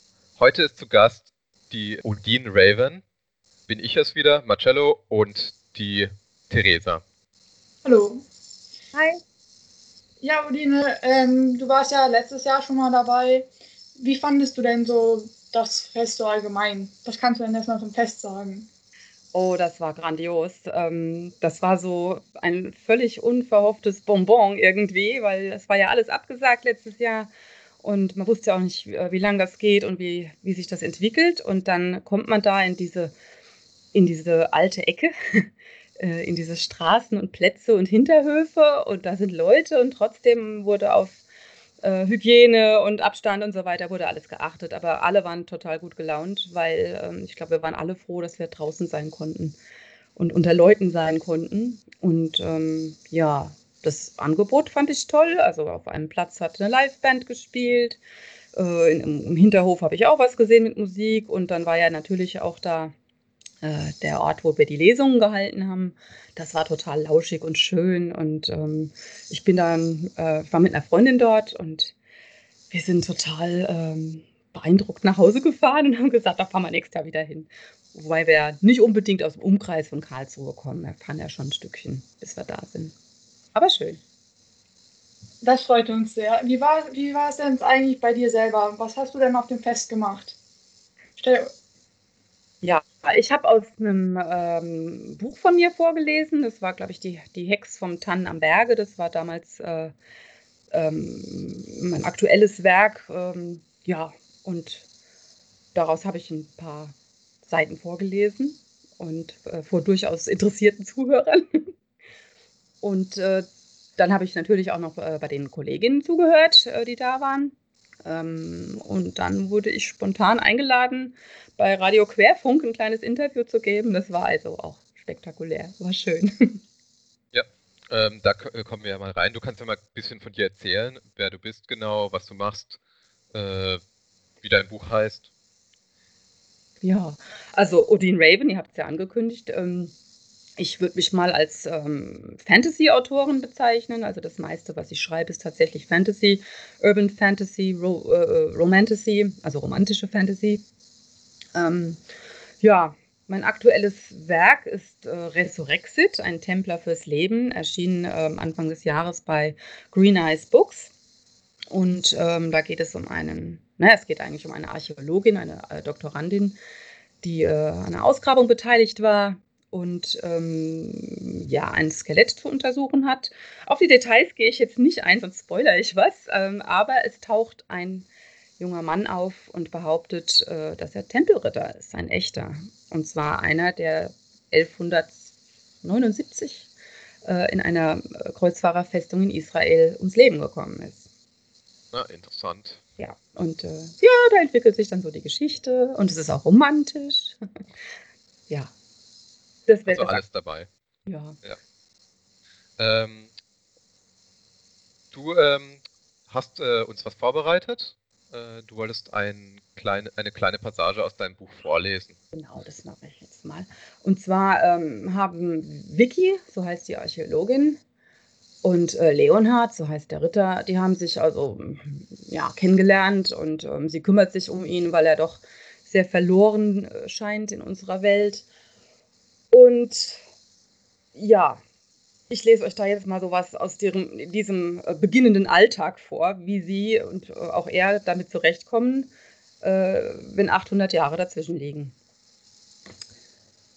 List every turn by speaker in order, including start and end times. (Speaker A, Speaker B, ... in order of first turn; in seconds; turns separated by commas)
Speaker A: 0.4-3.0, Speaker A: 3.7-7.0, Speaker B: 7.8-8.2, Speaker C: 8.9-9.2, Speaker B: 10.2-18.7, Speaker C: 19.3-27.3, Speaker C: 27.8-33.1, Speaker C: 33.9-35.5, Speaker C: 36.0-41.2, Speaker C: 41.8-49.6, Speaker C: 50.1-58.0, Speaker C: 58.5-62.9, Speaker C: 63.6-71.9, Speaker C: 72.7-82.9, Speaker C: 83.5-84.0, Speaker B: 85.4-90.3, Speaker B: 91.2-91.5, Speaker C: 92.6-99.9, Speaker C: 100.7-104.8, Speaker C: 105.7-111.7, Speaker C: 112.8-113.5, Speaker C: 114.0-117.5, Speaker C: 118.0-126.6, Speaker A: 127.3-132.8, Speaker A: 133.3-133.8, Speaker A: 134.4-135.3, Speaker C: 136.8-139.9, Speaker C: 140.6-150.6, Speaker C: 151.5-152.0, Speaker C: 152.6-160.9, Speaker C: 161.7-166.6, Speaker C: 167.2-178.1, Speaker C: 178.6-185.3, Speaker C: 185.8-186.7, Speaker C: 187.2-191.1, Speaker A: 191.9-192.8, Speaker C: 193.0-197.4, Speaker C: 199.7-200.2, Speaker A: 199.9-200.7, Speaker C: 201.1-201.4, Speaker A: 202.8-203.3, Speaker A: 205.1-212.2, Speaker C: 212.3-217.8, Speaker C: 218.6-228.4, Speaker C: 229.5-230.2, Speaker C: 231.1-231.6, Speaker C: 232.3-241.9